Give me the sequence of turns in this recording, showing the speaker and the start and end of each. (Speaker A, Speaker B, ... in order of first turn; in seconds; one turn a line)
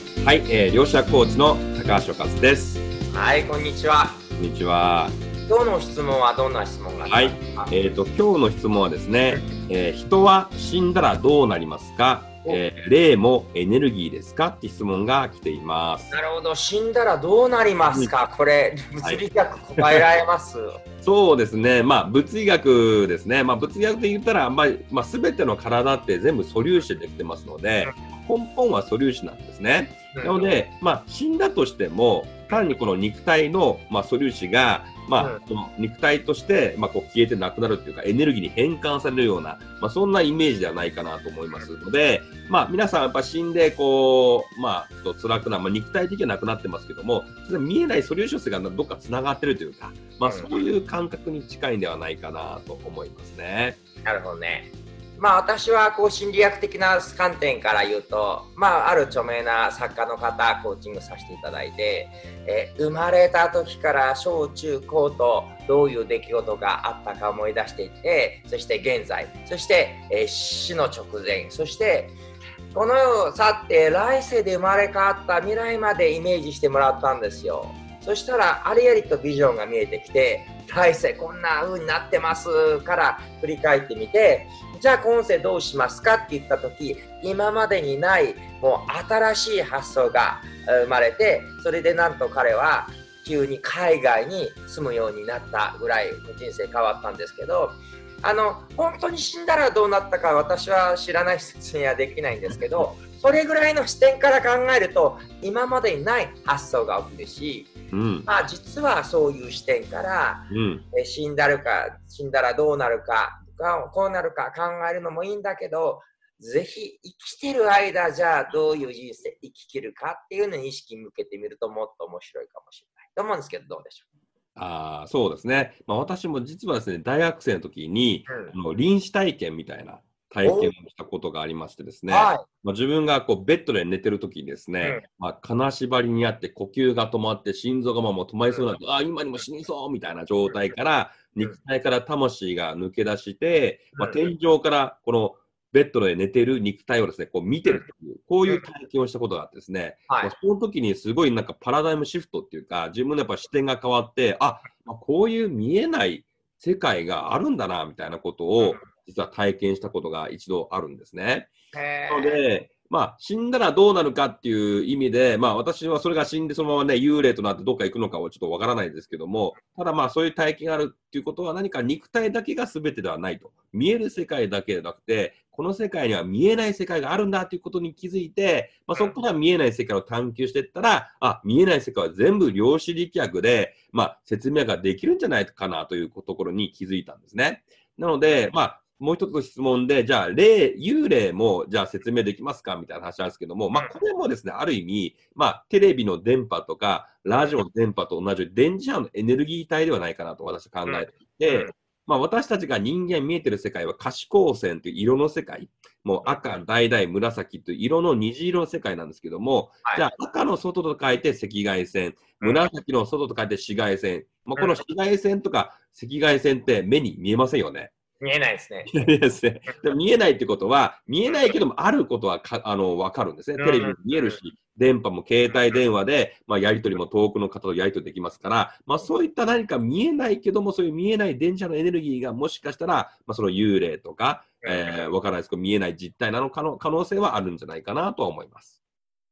Speaker A: 0.2-2.8
Speaker B: 3.1-4.2
Speaker A: 4.4-5.2
Speaker B: 5.5-7.8
Speaker A: 7.1-16.1
Speaker B: 16.1-20.8
Speaker A: 19.8-20.0
Speaker A: 21.0-53.8
Speaker B: 30.1-30.6
Speaker B: 50.2-50.5
Speaker B: 54.0-72.2
Speaker B: 72.7-107.7
Speaker A: 107.9-108.3
Speaker B: 108.3-124.1
Speaker A: 110.5-110.9
Speaker A: 124.6-161.5
Speaker B: 128.3-128.6
Speaker B: 130.4-130.7
Speaker B: 132.1-132.4
Speaker B: 140.5-140.7
Speaker B: 144.0-144.2
Speaker B: 158.6-158.9
Speaker B: 161.7-162.4
Speaker A: 162.1-217.9
Speaker B: 178.9-179.2
Speaker B: 188.3-188.5
Speaker B: 197.3-197.6
Speaker B: 200.9-201.7
Speaker B: 206.2-206.6
Speaker B: 209.8-210.1
Speaker B: 212.4-212.7
Speaker B: 214.6-214.8
Speaker B: 218.2-218.9
Speaker A: 218.9-238.7
Speaker B: 221.2-221.6
Speaker B: 223.6-224.4
Speaker B: 234.6-235.1